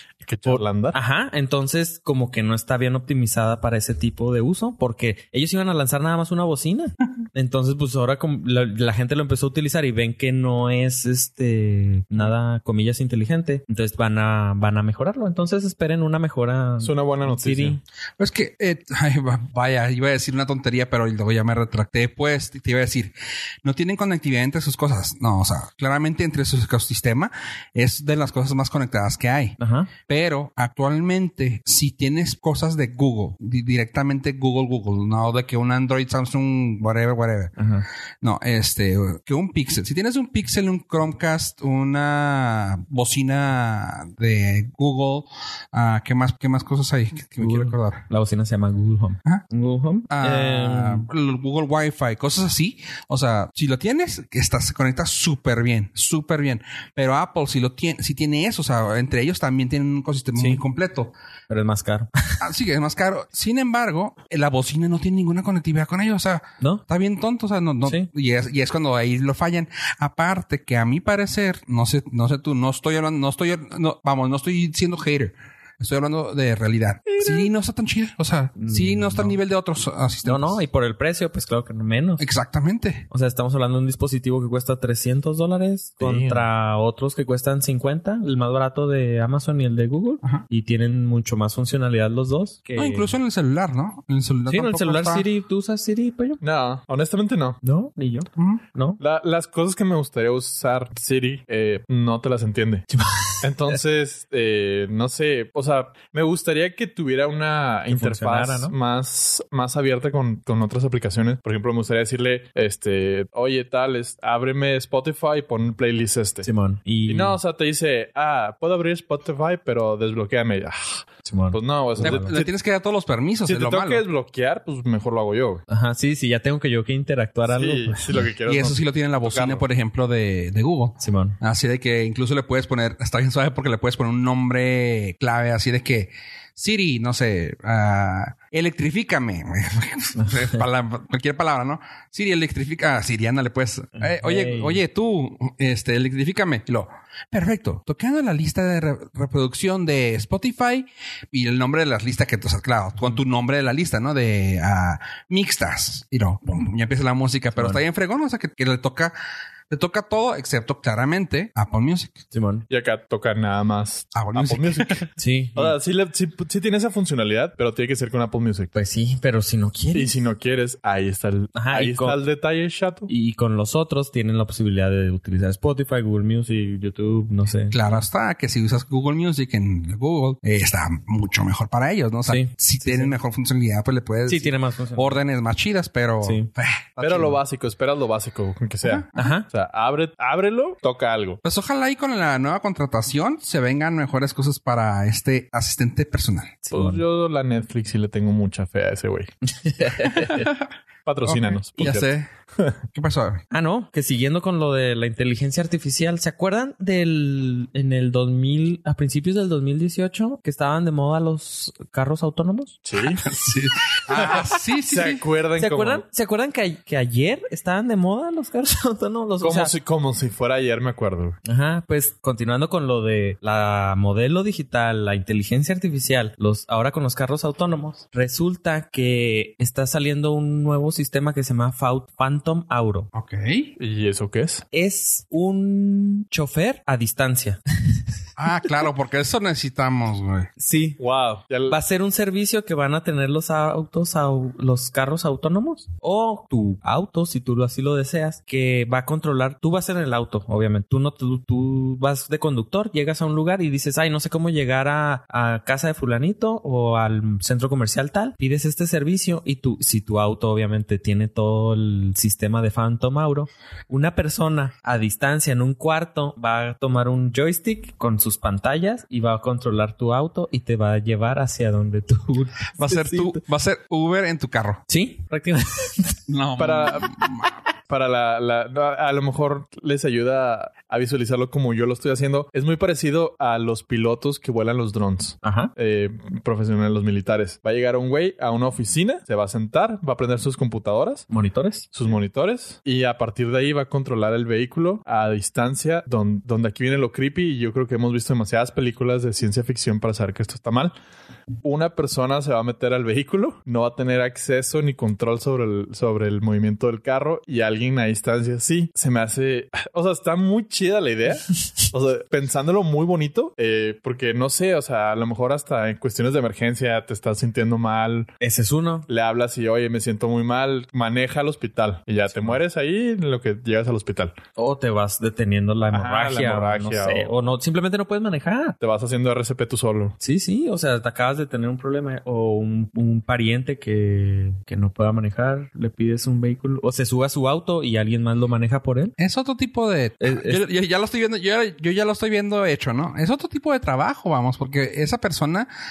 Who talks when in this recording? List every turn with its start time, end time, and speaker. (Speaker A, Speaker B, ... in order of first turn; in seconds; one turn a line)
Speaker A: 0.2-1.0
Speaker B: 0.5-17.8
Speaker A: 16.8-17.8
Speaker C: 18.2-23.1
Speaker C: 23.6-37.5
Speaker B: 29.6-29.9
Speaker B: 37.6-37.9
Speaker C: 38.2-48.0
Speaker B: 47.4-51.1
Speaker C: 50.1-61.1
Speaker B: 60.4-60.6
Speaker B: 61.5-62.4
Speaker C: 62.4-80.6
Speaker B: 77.2-77.5
Speaker B: 78.6-79.4
Speaker B: 80.2-82.3
Speaker C: 82.2-83.1
Speaker B: 83.1-93.1
Speaker A: 86.0-86.5
Speaker C: 92.8-95.3
Speaker B: 94.5-96.4
Speaker A: 96.4-97.6
Speaker B: 97.6-99.0
Speaker A: 99.0-102.9
Speaker B: 102.9-103.5
Speaker A: 103.4-116.5
Speaker B: 107.9-108.7
Speaker B: 116.4-117.4
Speaker A: 117.1-122.5
Speaker B: 121.2-122.3
Speaker C: 122.0-124.0
Speaker A: 123.5-125.6
Speaker B: 125.7-128.3
Speaker A: 127.5-129.7
Speaker C: 128.4-159.2
Speaker B: 131.0-131.4
Speaker B: 140.2-140.6
Speaker B: 144.0-144.8
Speaker B: 157.6-157.8
Speaker C: 159.7-162.2
Speaker B: 162.3-162.7
Speaker A: 162.7-168.8
Speaker C: 164.1-165.1
Speaker B: 165.2-165.8
Speaker B: 168.8-170.1
Speaker A: 169.9-173.1
Speaker B: 171.6-172.2
Speaker B: 173.1-177.8
Speaker C: 177.7-187.4
Speaker B: 182.3-183.1
Speaker B: 184.3-185.2
Speaker B: 186.2-186.5
Speaker A: 187.0-191.4
Speaker B: 189.2-189.5
Speaker C: 191.4-196.6
Speaker B: 196.7-197.0
Speaker A: 196.7-199.3
Speaker B: 199.5-200.5
Speaker C: 200.0-200.7
Speaker A: 201.1-202.8
Speaker C: 201.2-202.3
Speaker C: 202.9-203.4
Speaker B: 203.5-212.8
Speaker A: 212.8-213.2
Speaker C: 213.2-215.2
Speaker A: 214.1-216.0
Speaker B: 215.6-219.7
Speaker A: 219.4-221.4
Speaker B: 221.4-233.1
Speaker C: 233.1-233.7
Speaker A: 233.8-234.6
Speaker B: 234.7-238.0
Speaker C: 238.4-240.5
Speaker B: 240.6-241.0
Speaker A: 241.0-241.8
Speaker B: 241.7-273.4
Speaker C: 272.8-274.8
Speaker B: 274.9-276.2
Speaker C: 276.3-277.5
Speaker A: 276.6-277.1
Speaker A: 277.9-291.3
Speaker B: 285.4-285.7
Speaker B: 291.3-291.9
Speaker A: 291.9-300.9
Speaker A: 301.6-318.3
Speaker B: 318.4-319.1
Speaker A: 319.1-324.4
Speaker B: 324.6-328.8
Speaker A: 325.9-327.4
Speaker A: 328.8-330.2
Speaker B: 330.2-339.1
Speaker C: 339.2-345.7
Speaker B: 340.2-340.6